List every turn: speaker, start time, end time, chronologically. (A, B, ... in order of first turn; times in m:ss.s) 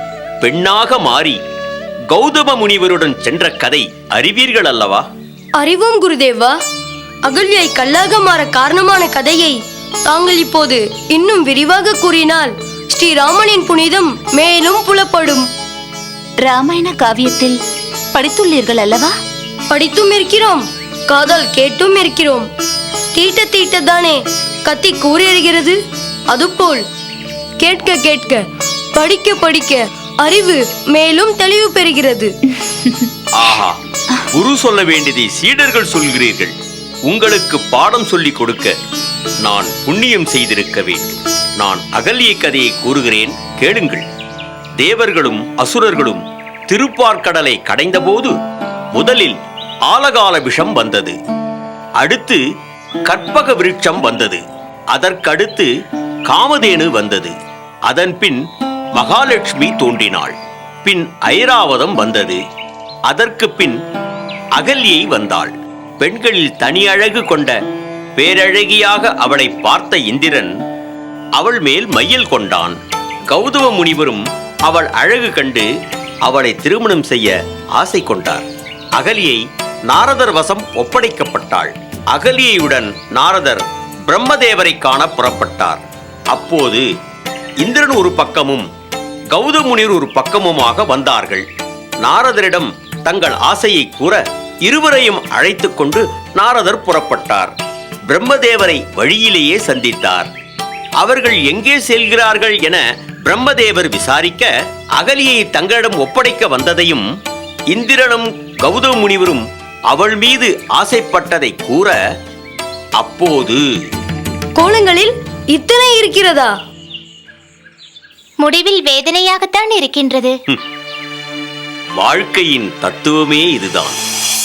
0:00.4-0:01.4 A
0:02.1-0:05.0 A
0:05.6-0:06.5 B
0:07.2-0:15.5 B
0:16.4-0:17.6 C
0:18.1-0:19.1 C
0:19.7-0:22.5 B
0:23.1-0:25.8 B
0:26.3-0:26.8 B
0:27.6-0:28.4 B
0:29.0-0:32.3 B
0:32.6-0:33.1 C
0:33.4-0:33.8 A
0:34.3-0:36.5 A
0:37.1-0:38.7 A
0:39.4-0:44.0 A
0:44.8-0:48.3 A
0:48.9-0:49.4 A
0:49.9-0:51.2 A
0:52.0-0:52.4 A
0:53.1-0:54.4 A
0:54.9-0:55.7 A
0:56.3-0:57.3 A
0:57.9-0:58.4 A
0:59.0-1:02.4 A
1:03.1-1:03.8 A
1:04.6-1:07.6 A
1:08.2-1:10.5 A
1:11.4-1:12.8 A
1:13.3-1:15.6 A
1:16.2-1:18.4 A
1:19.0-1:26.8 A
1:27.6-1:28.6 A
1:29.3-1:31.4 A
1:32.0-1:37.5 A
1:38.1-1:40.3 A
1:41.0-1:47.0 A
1:47.7-1:52.0 A
1:53.0-1:53.6 A
1:54.6-1:56.5 B
1:58.4-2:00.4 D
2:02.0-2:04.0 A